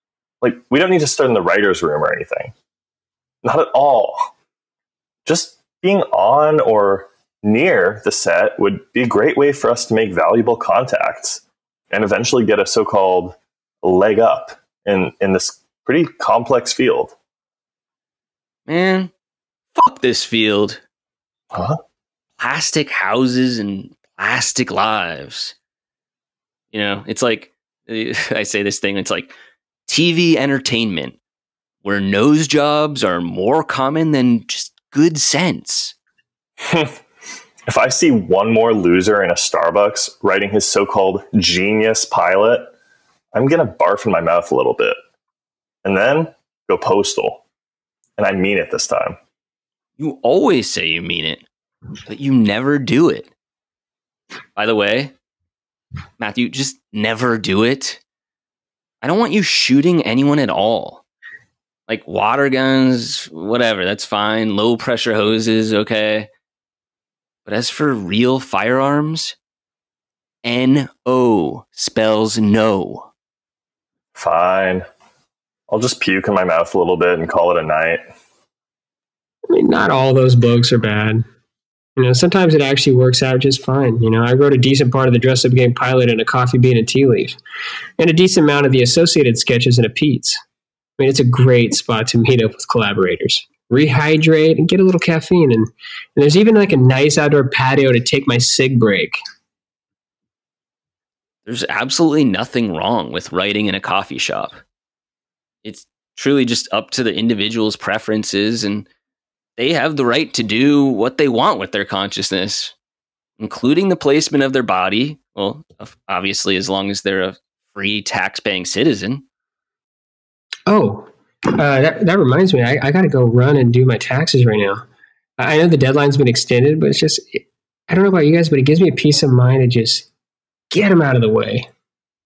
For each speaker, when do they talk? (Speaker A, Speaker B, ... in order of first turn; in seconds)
Speaker A: 0.4-2.5, 3.4-4.3, 5.3-17.2, 21.5-21.8, 36.6-37.0, 37.7-42.7, 43.3-45.0, 45.8-47.4, 48.2-49.2, 74.1-74.9, 75.7-78.0
Speaker B: 18.7-19.1, 19.7-20.8, 22.4-25.6, 26.7-29.3, 29.9-31.2, 31.8-36.0, 50.0-51.5, 52.1-53.3, 54.6-55.1, 56.2-58.0, 59.0-61.0, 61.9-66.3, 67.5-69.4, 70.4-73.1, 101.5-104.6, 105.6-108.9, 109.6-112.7, 113.4-119.2
Speaker C: 79.5-81.2, 82.0-87.4, 88.0-90.4, 91.0-99.2, 120.7-124.8, 125.4-130.1, 130.7-131.7